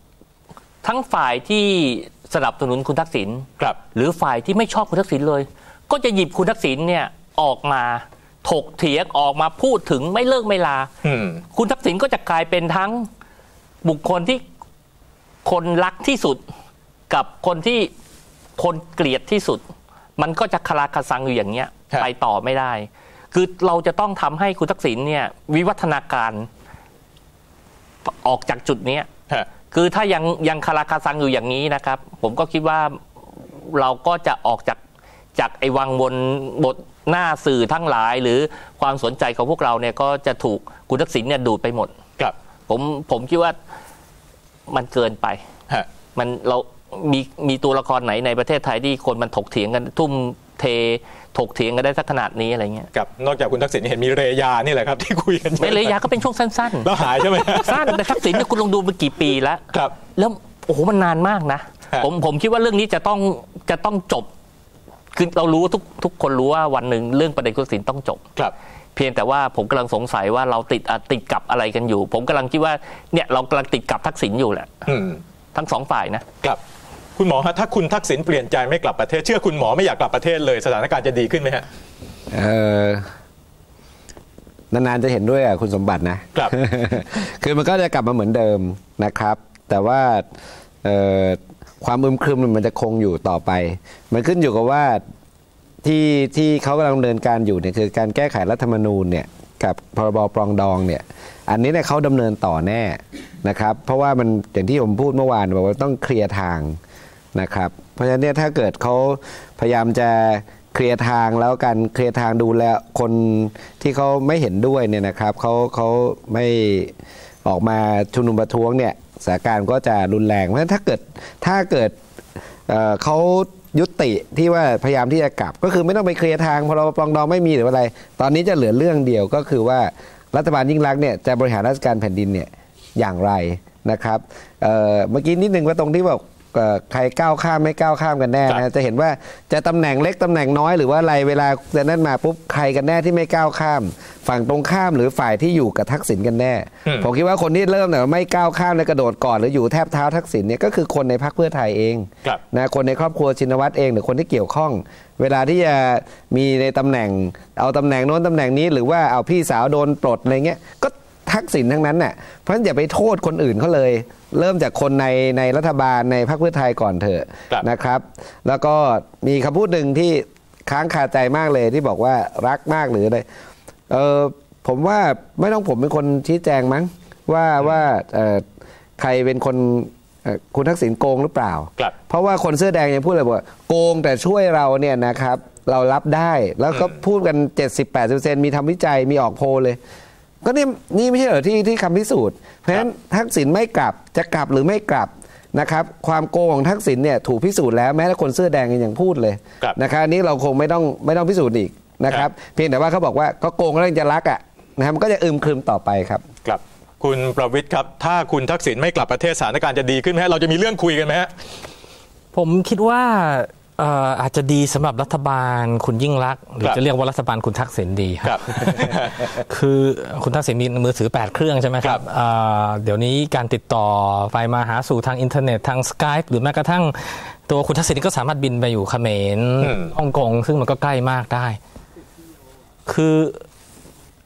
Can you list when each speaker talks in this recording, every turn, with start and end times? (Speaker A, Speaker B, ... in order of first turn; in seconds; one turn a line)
Speaker A: 0.8-10.9
Speaker B: 11.0-11.4
Speaker A: 11.5-13.1
Speaker A: 13.8-14.4
Speaker A: 15.4-16.4
Speaker A: 17.1-17.9
Speaker A: 18.6-19.6
Speaker A: 20.2-26.5
Speaker A: 28.2-33.0
Speaker A: 33.7-34.8
Speaker A: 35.4-41.9
Speaker A: 42.7-43.5
Speaker A: 44.7-45.4
Speaker A: 46.1-52.9
Speaker B: 52.9-56.0
Speaker A: 55.6-64.3
Speaker B: 56.8-58.4
Speaker A: 65.1-68.2
Speaker A: 69.0-74.8
Speaker B: 74.9-75.2
Speaker A: 75.5-76.2
Speaker B: 77.2-81.7
Speaker C: 82.3-83.0
Speaker C: 84.7-90.2
Speaker C: 90.8-95.0
Speaker C: 95.8-106.8
Speaker C: 107.3-116.9
Speaker C: 117.5-122.0
Speaker C: 122.7-173.2
Speaker C: 173.9-178.4
Speaker C: 179.0-189.8
Speaker C: 190.4-206.2
Speaker B: 206.4-211.3
Speaker D: 212.3-231.6
Speaker B: 218.2-219.3
Speaker B: 229.6-229.9
Speaker D: 232.9-233.4